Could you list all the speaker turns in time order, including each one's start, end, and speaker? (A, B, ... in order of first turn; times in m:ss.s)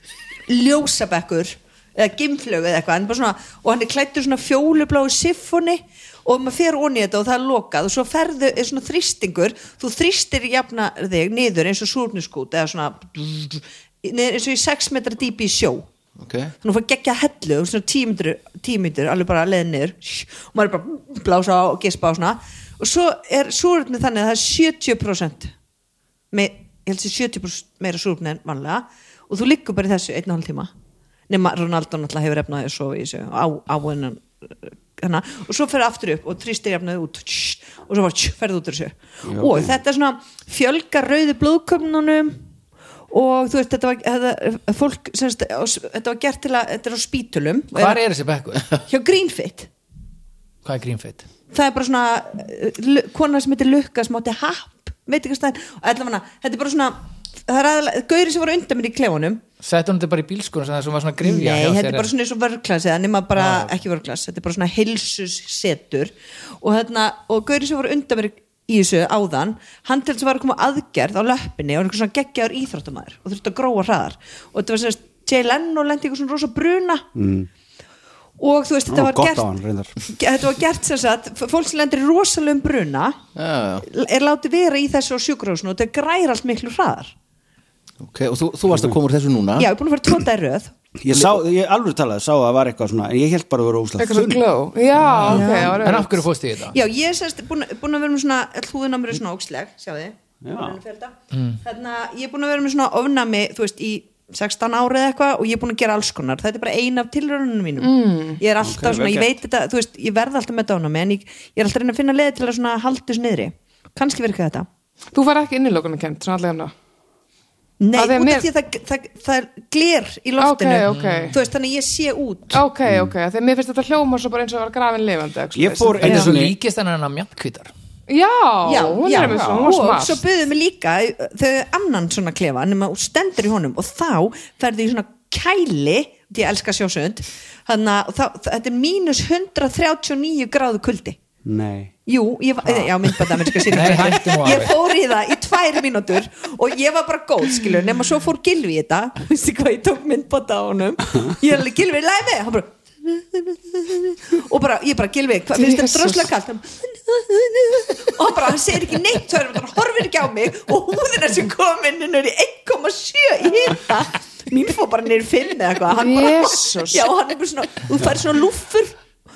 0:00.5-0:15.9 A
0:16.2-0:16.5 B
0:16.6-0:25.5 A
0:26.3-0:30.7 A
0:31.3-0:42.4 A
0:39.2-0:39.8 C
0:43.1-0:48.0 A
0:47.7-0:48.7 D
0:48.9-0:49.7 A
0:50.6-0:51.3 D
0:51.5-0:59.4 A
0:59.6-1:02.1 D
1:01.2-1:17.1 A
1:03.4-1:03.7 D
1:17.2-1:17.5 C
1:18.4-1:19.5 A
1:18.9-1:20.0 C
1:20.0-1:23.2 A
1:23.4-1:23.9 B
1:23.8-1:27.1 A
1:28.0-1:29.7 B
1:28.7-1:29.0 C
1:29.6-1:30.7 A
1:31.0-1:34.5 C
1:34.0-1:36.2 E
1:35.0-1:36.8 D
1:35.3-1:35.9 A
1:36.7-1:54.7 A
1:40.4-1:40.8 C
1:41.3-1:41.6 D
1:47.8-1:48.4 E
1:48.6-1:49.4 C
1:55.1-1:56.7 E
1:57.8-2:02.6 A
1:57.9-1:58.5 E
2:00.4-2:01.4 E
2:00.9-2:01.4 D
2:02.5-2:06.3 E
2:02.9-2:03.1 C
2:05.5-2:06.6 C
2:06.0-2:07.7 D
2:08.1-2:10.2 E
2:08.6-2:21.2 A
2:09.2-2:09.5 D
2:21.4-2:21.9 C
2:22.1-2:49.0 A
2:23.7-2:24.8 D
2:35.6-2:36.3 E
2:45.9-2:47.1 E